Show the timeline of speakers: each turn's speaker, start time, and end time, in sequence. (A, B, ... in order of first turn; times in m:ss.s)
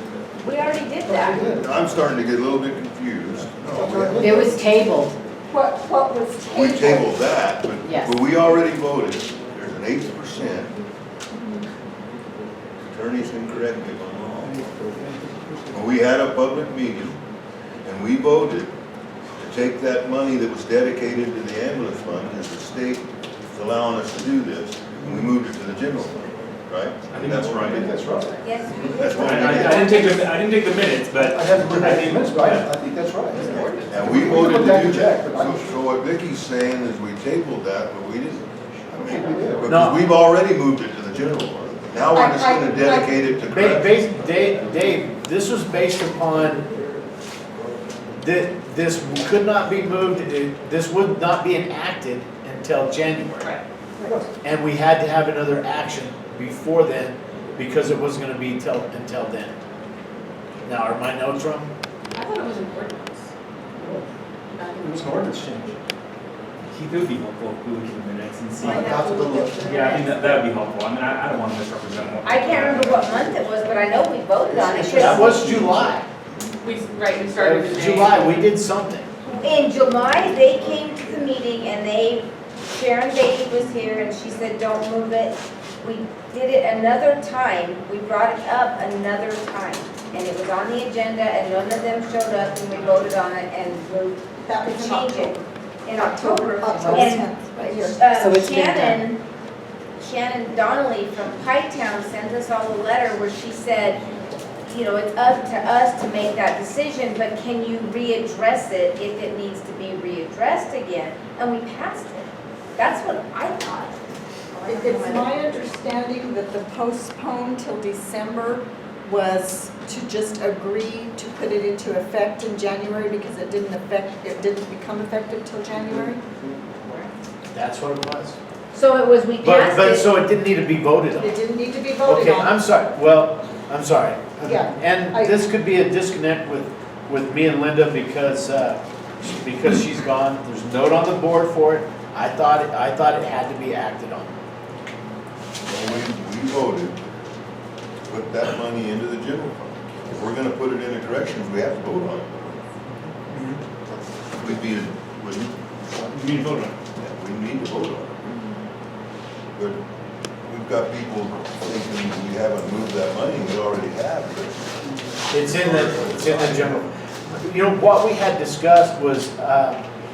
0:00.4-0:01.6 A
0:01.1-0:02.0 B
0:01.5-0:04.6 C
0:03.7-0:04.6 B
0:04.2-0:05.1 D
0:05.5-0:07.2 E
0:06.5-0:10.8 C
0:07.8-0:08.1 D
0:12.8-0:14.7 C
0:14.4-0:15.9 B
0:15.7-0:17.2 C
0:17.8-0:18.7 C
0:19.4-0:28.1 C
0:25.0-0:25.3 B
0:27.1-0:27.9 F
0:27.7-0:28.4 B
0:28.4-0:30.3 A
0:28.8-0:30.0 C
0:29.1-0:32.7 F
0:31.2-0:35.8 B
0:33.3-0:44.6 C
0:33.4-0:33.8 F
0:39.0-0:39.8 B
0:39.6-0:40.0 G
0:42.1-0:43.2 E
0:43.4-0:46.7 G
0:48.1-0:53.6 G
0:54.0-0:54.3 B
0:54.4-0:59.6 G
1:00.6-1:01.7 G
1:02.1-1:03.3 H
1:03.8-1:04.1 B
1:04.8-1:05.8 B
1:06.7-1:08.9 F
1:08.6-1:09.7 B
1:08.6-1:10.3 H
1:08.9-1:10.0 E
1:09.6-1:13.4 F
1:12.2-1:15.6 A
1:14.7-1:15.9 F
1:14.8-1:16.1 G
1:16.6-1:18.4 H
1:17.3-1:19.1 G
1:19.3-1:39.2 A
1:34.4-1:38.1 E
1:36.7-1:37.1 D
1:37.7-1:39.0 D
1:40.0-1:44.1 A
1:44.6-1:54.0 A
1:54.5-1:55.7 A
1:54.7-2:06.2 E
2:05.8-2:06.6 B
2:07.5-2:08.4 G
2:08.7-2:10.1 A
2:09.4-2:11.4 G
2:11.2-2:12.6 E
2:12.0-2:24.3 G
2:14.4-2:15.4 E
2:25.6-2:27.0 C
2:28.1-2:32.7 C
2:33.3-2:33.6 G
2:34.4-2:35.5 C
2:36.3-2:36.7 F
2:37.0-2:38.2 C
2:40.5-2:46.9 C
2:45.3-2:49.8 G